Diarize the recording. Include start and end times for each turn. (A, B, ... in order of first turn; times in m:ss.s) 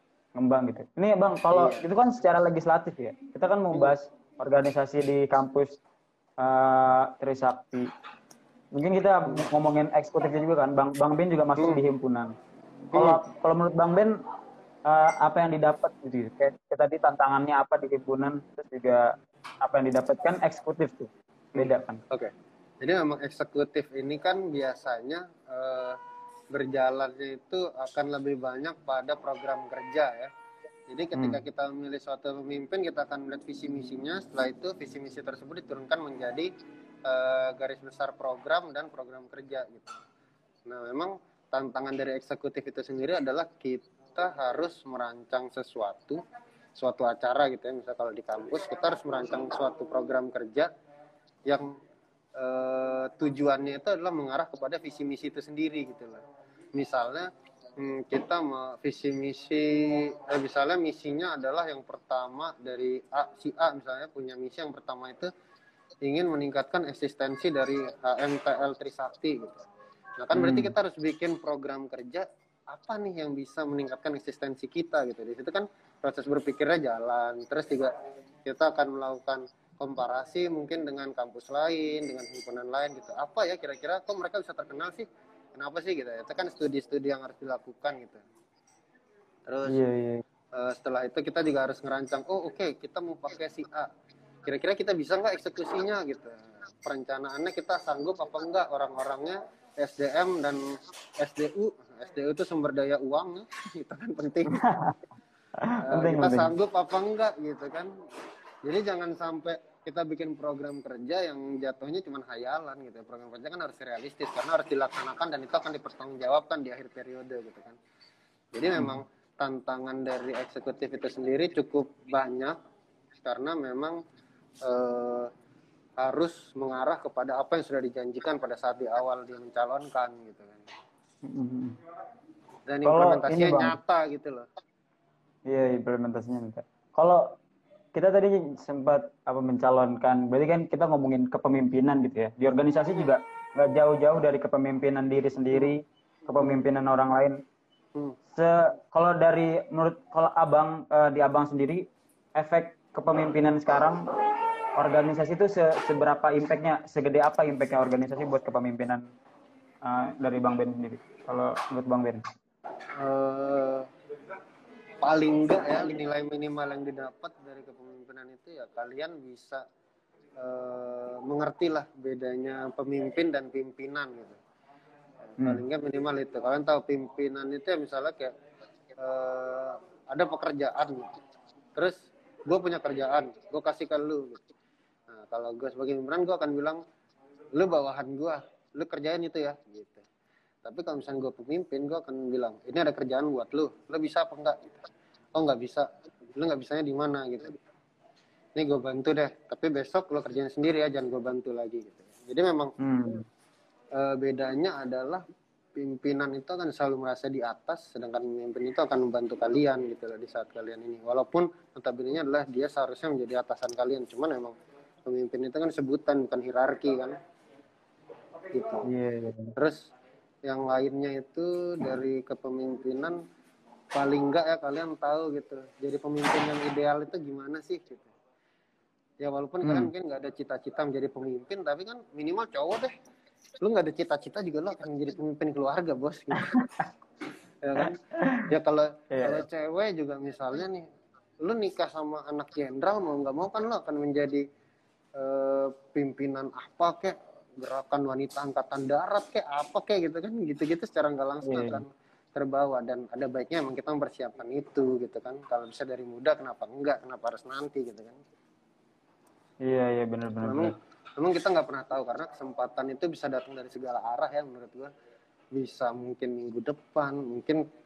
0:00.3-0:05.8 A
0:01.5-0:01.8 B
0:06.4-0:07.9 A
0:08.7-0:12.3 A
0:11.6-0:11.8 B
0:12.9-0:14.2 A
0:12.9-0:13.2 B
0:14.8-0:22.0 A
0:21.5-0:22.3 B
0:22.8-0:26.0 B
0:26.5-0:30.3 B
0:30.9-0:36.5 B
0:31.1-0:31.4 A
0:37.0-0:40.0 B
0:40.7-0:46.2 B
0:46.8-0:50.7 B
0:52.4-0:56.2 B
0:56.7-1:05.3 B
1:06.0-1:09.6 B
1:10.2-1:17.9 B
1:10.3-1:10.7 A
1:18.4-1:28.2 B
1:29.5-1:29.8 B
1:29.7-1:30.2 A
1:30.5-1:33.9 B
1:34.4-1:44.6 B
1:44.5-1:45.0 A
1:45.6-1:46.5 A
1:45.8-1:47.9 B
1:48.6-1:57.8 B
1:58.5-2:02.6 B
1:58.7-1:59.0 A
2:03.2-2:04.0 B
2:04.6-2:05.3 B
2:06.0-2:10.6 B
2:11.2-2:11.8 A
2:12.7-2:14.5 B
2:12.8-2:13.8 A
2:15.5-2:17.4 A
2:17.9-2:27.4 A
2:26.3-2:26.6 B
2:28.3-2:34.0 A
2:34.8-2:39.0 A
2:39.8-2:42.2 A
2:43.0-2:43.9 B
2:45.0-2:49.6 B
2:50.4-2:54.4 B
2:55.4-2:58.3 B
2:59.0-3:01.1 B
3:01.8-3:04.4 B
3:05.1-3:06.8 B
3:07.6-3:10.0 B
3:10.6-3:14.8 B
3:15.3-3:17.6 B
3:18.6-3:22.7 B
3:22.8-3:23.2 A
3:24.0-3:25.2 B
3:25.8-3:34.5 B
3:35.0-3:37.2 B
3:38.5-3:38.9 B
3:38.8-3:39.5 A
3:40.4-3:43.2 B
3:43.9-3:48.1 B
3:49.2-3:52.9 B
3:49.6-3:49.9 A
3:53.6-3:56.6 B
3:56.3-3:56.9 A
3:57.6-3:58.0 B
3:57.8-3:58.5 A
3:58.5-4:00.8 B
3:59.1-3:59.4 A
4:01.4-4:04.4 B
4:05.2-4:18.2 B
4:11.4-4:11.8 A
4:19.6-4:20.7 A
4:20.4-4:24.9 B
4:25.5-4:27.6 B